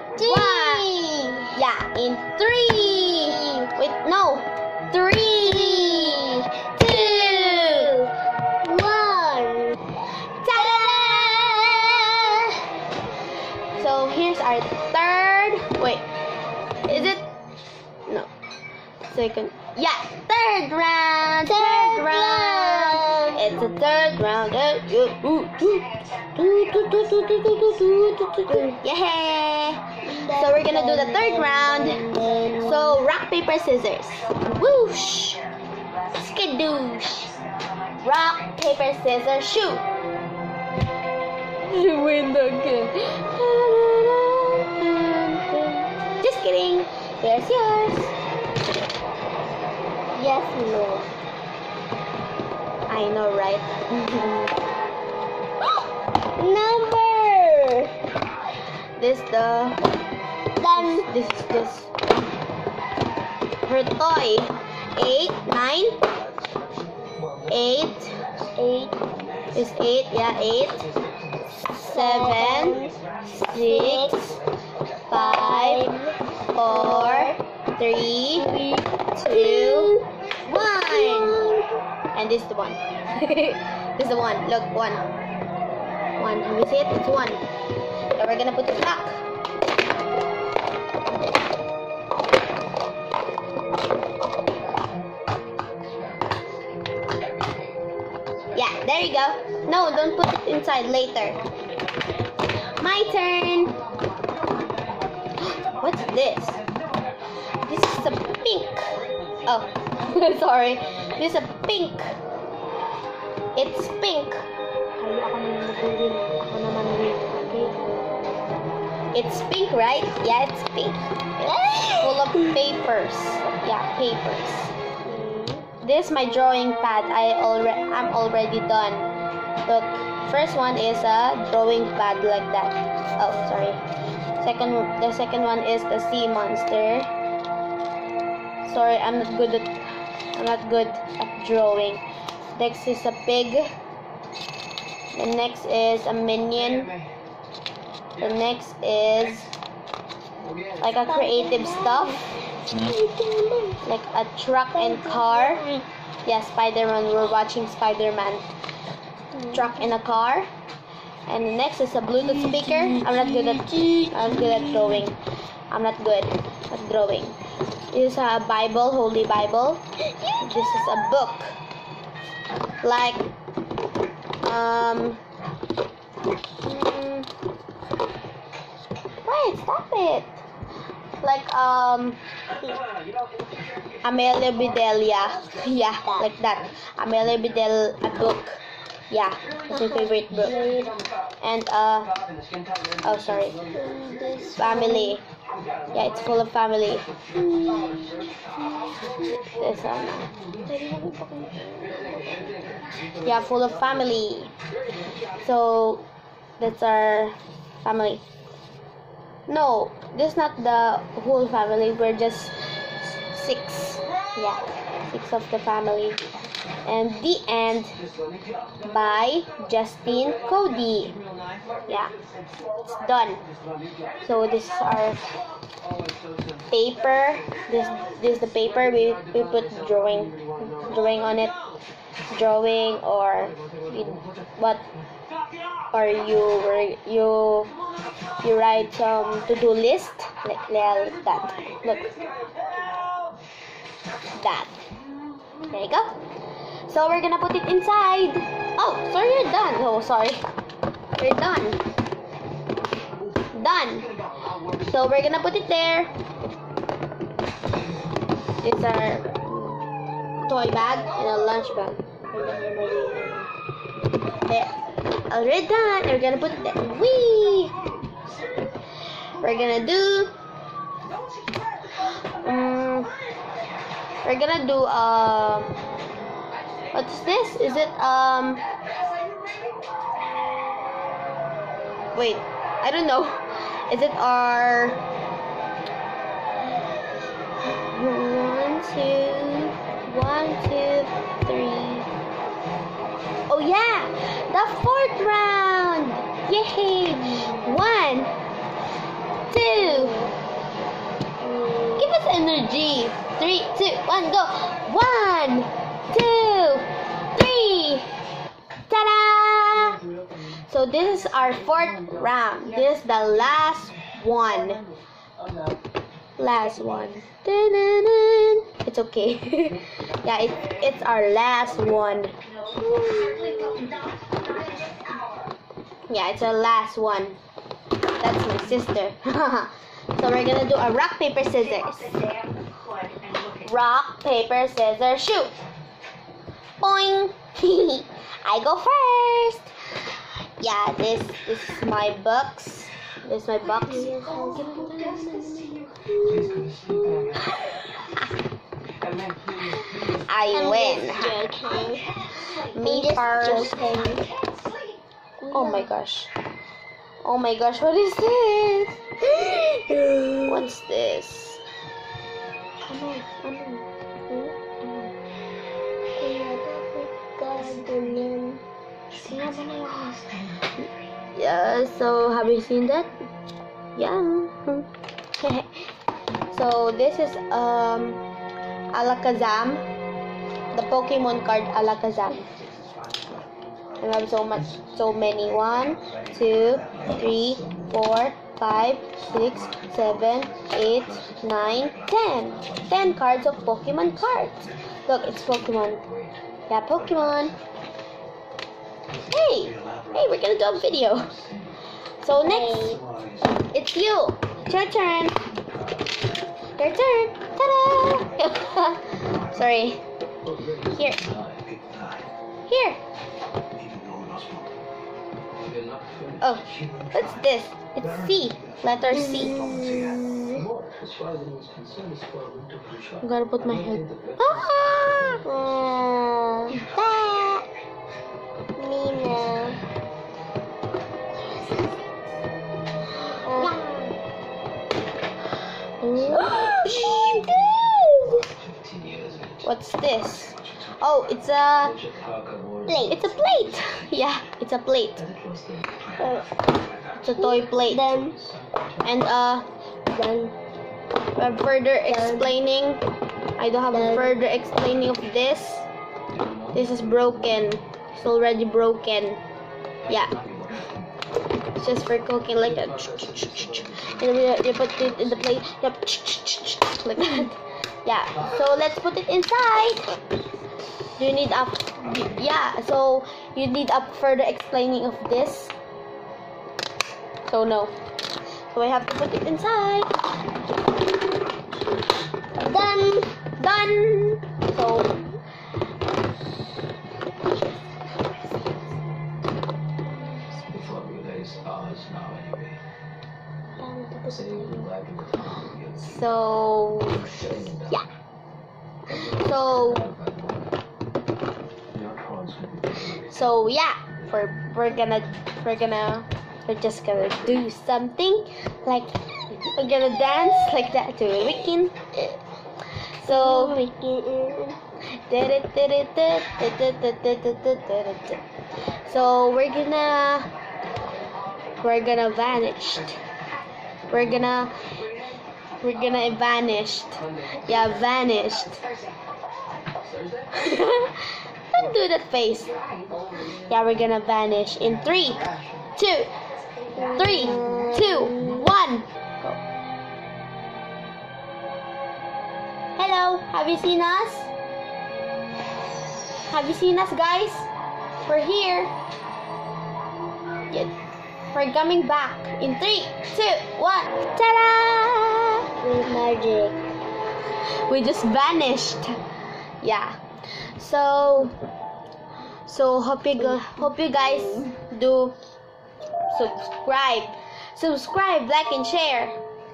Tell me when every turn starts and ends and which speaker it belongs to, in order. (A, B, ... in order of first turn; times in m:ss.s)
0:00.2-0:00.9 A
0:00.2-0:01.5 B
0:01.5-0:07.9 A
0:05.5-0:08.1 B
0:08.6-0:09.8 B
0:10.4-0:11.1 A
0:10.5-0:12.6 B
0:13.8-0:16.0 A
0:16.8-0:17.3 A
0:19.1-0:32.0 A
0:21.5-0:23.4 B
0:28.5-0:28.8 B
0:30.0-0:33.0 B
0:32.6-0:35.4 A
0:36.1-0:37.4 A
0:38.0-0:39.8 A
0:41.6-0:48.1 A
0:50.2-0:51.1 B
0:52.9-0:54.5 A
0:55.6-0:57.9 B
0:59.0-0:59.8 A
1:00.6-1:01.1 B
1:00.8-1:01.9 A
1:03.7-1:06.0 A
1:07.5-1:08.2 A
1:08.6-1:09.0 B
1:09.5-1:10.9 A
1:11.7-1:14.4 A
1:11.8-1:14.3 B
1:15.1-1:15.8 A
1:15.1-1:16.2 B
1:16.5-1:18.4 A
1:16.7-1:17.4 B
1:18.4-1:21.7 B
1:19.2-1:19.9 A
1:20.4-1:21.4 A
1:22.1-1:25.0 A
1:26.2-1:27.4 A
1:28.2-1:29.2 A
1:38.5-1:41.4 A
1:42.8-1:43.8 A
1:45.4-1:46.6 A
1:47.6-1:52.1 A
1:53.6-1:54.4 A
1:55.0-1:57.8 A
1:59.1-2:01.0 A
2:01.4-2:02.4 B
2:02.0-2:04.7 A
2:05.0-2:05.7 B
2:05.8-2:09.1 A
2:09.7-2:13.8 A
2:14.4-2:17.1 A
2:18.6-2:19.7 A
2:20.4-2:22.0 A
2:22.6-2:23.7 A
2:25.1-2:26.9 A
2:28.2-2:29.5 A
2:30.8-2:32.2 A
2:30.9-2:33.8 B
2:33.8-2:35.6 A
2:34.7-2:35.9 B
2:36.2-2:38.5 A
2:39.3-2:39.9 B
2:39.5-2:40.5 A
2:41.3-2:45.2 A
2:42.2-2:45.0 B
2:45.7-2:47.4 A
2:47.9-2:49.8 A
2:50.4-2:51.6 A
2:52.8-2:53.3 A
2:54.4-2:55.2 A
2:56.6-2:57.3 A
2:59.2-3:00.4 A
3:01.2-3:02.2 A
3:04.0-3:10.6 A
3:09.7-3:11.1 B
3:11.4-3:12.1 A
3:13.0-3:13.6 A
3:13.7-3:15.2 B
3:14.6-3:15.2 A
3:15.9-3:17.1 A
3:17.3-3:19.2 B
3:19.6-3:20.4 A
3:20.6-3:22.8 B
3:23.2-3:24.5 A
3:25.4-3:26.0 A
3:26.6-3:28.2 A
3:29.5-3:36.2 A
3:36.9-3:38.0 A
3:38.8-3:41.2 A
3:41.9-3:42.1 A
3:42.9-3:43.4 A
3:44.2-3:45.3 A
3:46.7-3:51.6 A
3:52.3-3:54.8 A
3:55.9-3:57.7 A
3:58.4-4:02.1 A
4:04.3-4:04.7 A
4:05.7-4:06.2 A
4:06.9-4:10.4 A
4:11.2-4:11.8 A
4:13.5-4:14.1 A
4:14.8-4:16.1 A
4:18.6-4:19.8 A
4:20.4-4:22.0 A
4:22.3-4:23.5 B
4:24.5-4:24.8 A
4:25.3-4:27.8 A
4:29.4-4:30.3 A
4:32.3-4:33.1 A
4:34.2-4:35.8 A
4:36.9-4:38.6 A
4:42.1-4:45.0 A
4:47.6-4:52.1 A
4:53.5-4:58.3 A
4:57.2-4:57.6 B
4:59.5-5:00.2 A
4:59.8-5:00.4 B
5:01.4-5:02.1 B
5:02.0-5:08.1 A
5:08.9-5:10.0 A
5:10.6-5:14.8 A
5:16.4-5:22.4 A
5:22.7-5:24.0 B
5:26.1-5:27.4 A
5:28.2-5:32.1 A
5:33.6-5:35.6 A
5:36.8-5:39.7 A
5:40.6-5:44.7 A
5:43.7-5:47.6 B
5:49.7-5:54.3 B
5:50.1-5:51.4 A
5:52.7-5:53.8 A
5:55.4-5:55.9 B
5:55.5-5:56.3 A
5:57.2-5:59.0 A
5:59.2-6:00.7 B
6:00.5-6:01.6 A
6:02.9-6:03.8 A
6:04.3-6:04.6 B
6:04.8-6:05.1 A
6:06.2-6:08.6 B
6:09.2-6:10.4 A
6:11.4-6:13.1 A
6:14.0-6:14.9 A
6:15.4-6:15.8 A
6:16.5-6:18.2 A
6:18.9-6:19.8 A
6:20.7-6:22.5 A
6:24.0-6:36.0 A
6:36.7-6:37.6 A
6:39.3-6:41.3 A
6:42.2-6:43.0 A
6:42.4-6:43.0 B
6:43.7-6:45.4 A
6:46.8-6:50.0 A
6:50.9-6:51.2 A
6:52.7-6:53.0 A
6:54.2-6:54.5 C
6:56.4-6:59.6 A
6:59.1-7:00.7 B
6:59.8-7:00.2 C
7:00.8-7:03.0 C
7:03.2-7:05.4 A
7:05.4-7:07.6 B
7:08.8-7:09.8 B
7:11.4-7:12.0 B
7:13.4-7:14.1 B
7:13.6-7:14.1 A
7:16.0-7:17.2 A
7:16.3-7:18.4 B
7:18.8-7:19.5 C
7:19.6-7:22.0 A
7:22.2-7:23.3 C
7:22.9-7:23.2 B
7:23.1-7:25.2 A
7:25.6-7:26.4 C
7:26.0-7:26.5 B
7:27.2-7:28.0 A
7:27.4-7:28.4 B
7:29.0-7:29.7 A
7:30.1-7:30.5 B
7:31.4-7:33.0 A
7:32.1-7:32.6 B
7:33.6-7:35.9 A
7:33.9-7:34.4 B
7:36.7-7:39.4 A
7:40.1-7:40.3 A
7:40.5-7:40.9 C
7:41.8-7:50.0 A
7:51.2-7:55.7 A
7:57.4-7:57.9 A
7:58.7-8:00.1 A
8:02.6-8:03.3 B
8:03.6-8:05.2 A
8:10.1-8:10.6 B
8:10.8-8:12.8 C
8:13.8-8:15.0 B
8:14.6-8:15.8 C
8:16.0-8:18.0 A
8:19.1-8:20.1 A
8:20.0-8:20.6 C
8:22.0-8:23.1 C
8:23.0-8:31.9 A
8:32.1-8:32.4 B
8:33.1-8:33.8 A
8:33.3-8:34.8 B
8:35.1-8:38.4 A
8:39.1-8:40.5 A
8:41.8-8:43.2 A
8:44.1-8:44.8 A
8:45.8-8:48.8 A
8:50.5-8:52.7 A
8:53.6-8:55.4 A
8:56.0-8:56.3 A
8:57.0-8:58.6 B
8:57.0-8:59.6 A
9:03.0-9:04.5 A
9:06.5-9:07.7 A
9:08.2-9:08.9 A
9:11.5-9:15.6 A
9:15.8-9:16.8 B
9:17.7-9:19.2 A
9:19.8-9:20.2 A
9:20.8-9:21.6 A
9:22.7-9:25.4 A
9:23.4-9:24.7 B
9:26.3-9:29.4 A